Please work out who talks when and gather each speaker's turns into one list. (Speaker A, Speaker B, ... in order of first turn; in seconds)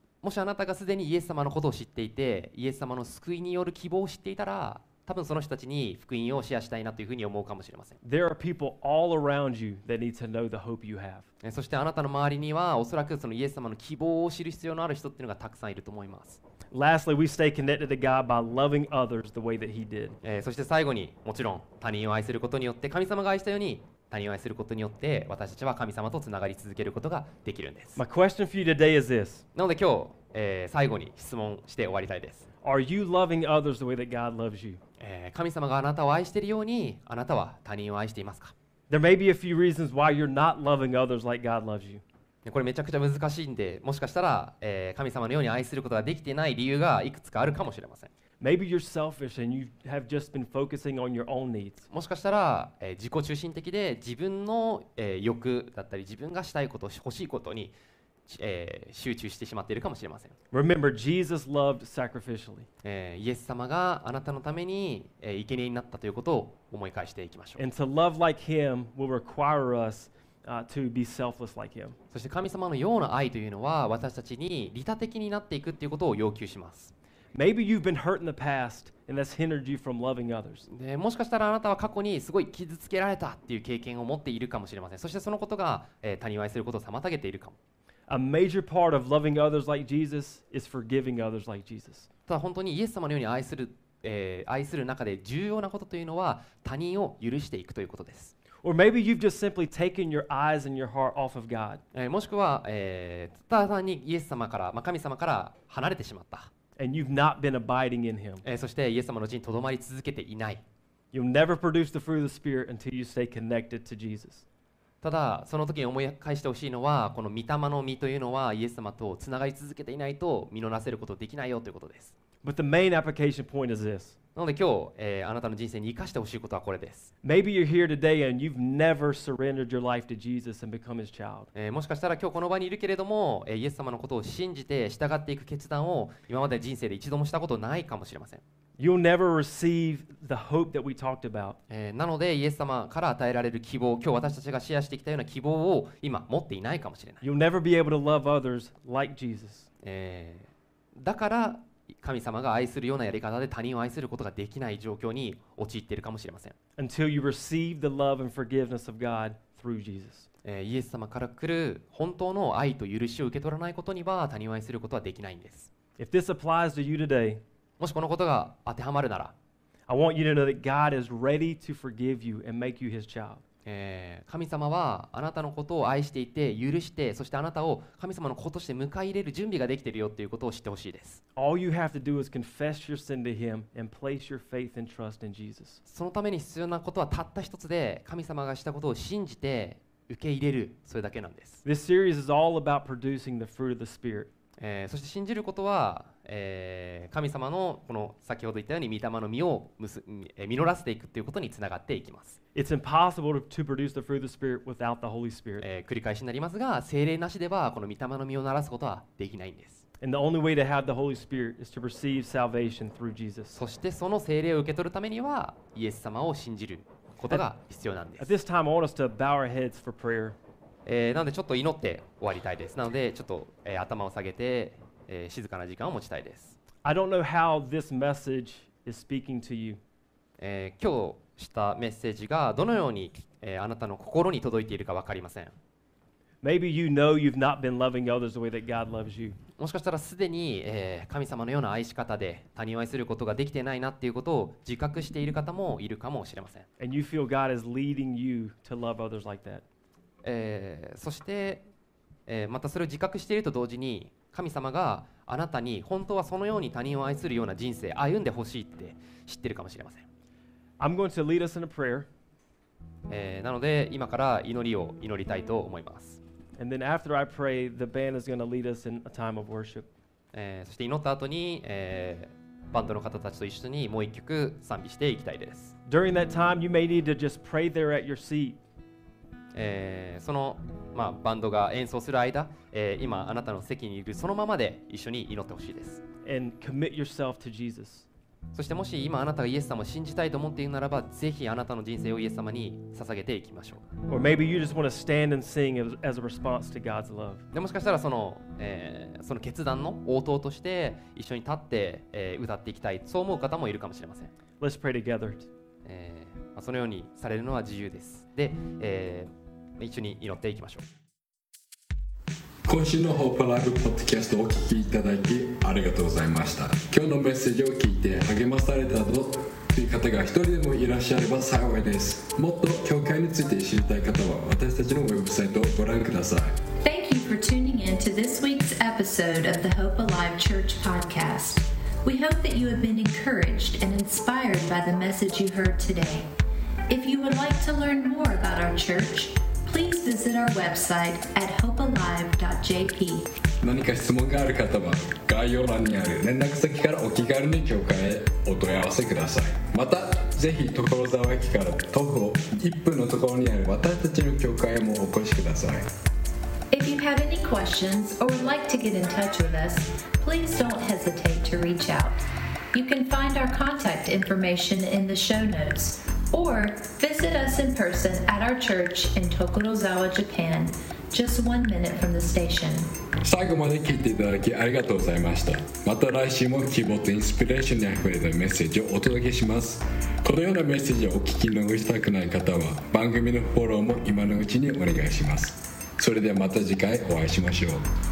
Speaker A: 0.2-8.0, 11.4-16.4, 20.2-28.0, 29.6-32.5, 35.0-38.5, 42.5-48.1, 51.9-60.4, 62.8-67.6, 72.1-76.9, 80.7-87.6, 92.3-98.3, 101.9-106.5, 108.4-110.6, 115.0-122.2, 124.3-127.1, 131.6-138.4, 141.7-147.2, 149.8-156.6, 160.4-165.7, 167.8-169.3, 173.7-181.2, 185.9-191.6, 194.6-202.4, 205.6-209.8, 213.6-218.3, 220.8-226.6, 230.4-235.6, 239.6-246.7, 250.2-251.7, 252.3-260.1, 263.1-266.2, 270.3-275.8, 279.5-286.0, 288.5-293.9, 297.5-304.3, 305.8-310.9
Speaker B: 8.0-11.3, 16.7-20.2, 28.0-29.4, 32.6-34.8, 38.9-42.0, 48.4-51.9, 60.5-62.7, 67.6-72.0, 77.3-80.7, 88.1-92.1, 98.6-101.8, 106.8-108.4, 111.1-114.5, 122.4-124.2, 127.2-131.5, 138.8-141.6, 147.2-149.7, 156.8-160.3, 166.0-167.4, 169.9-173.4, 181.4-185.8, 191.7-194.3, 202.6-205.7, 210.0-213.6, 218.2-220.4, 226.8-229.8, 236.4-239.4, 246.8-249.6, 260.8-262.1, 266.6-269.9, 275.9-278.6, 286.2-288.1, 294.1-297.4, 304.6-305.5
Speaker C: 312.6-326.6, 343.6-355.9, 373.2-387.9
Speaker D: 326.8-336.3, 336.9-343.3, 356.7-362.2, 362.7-372.9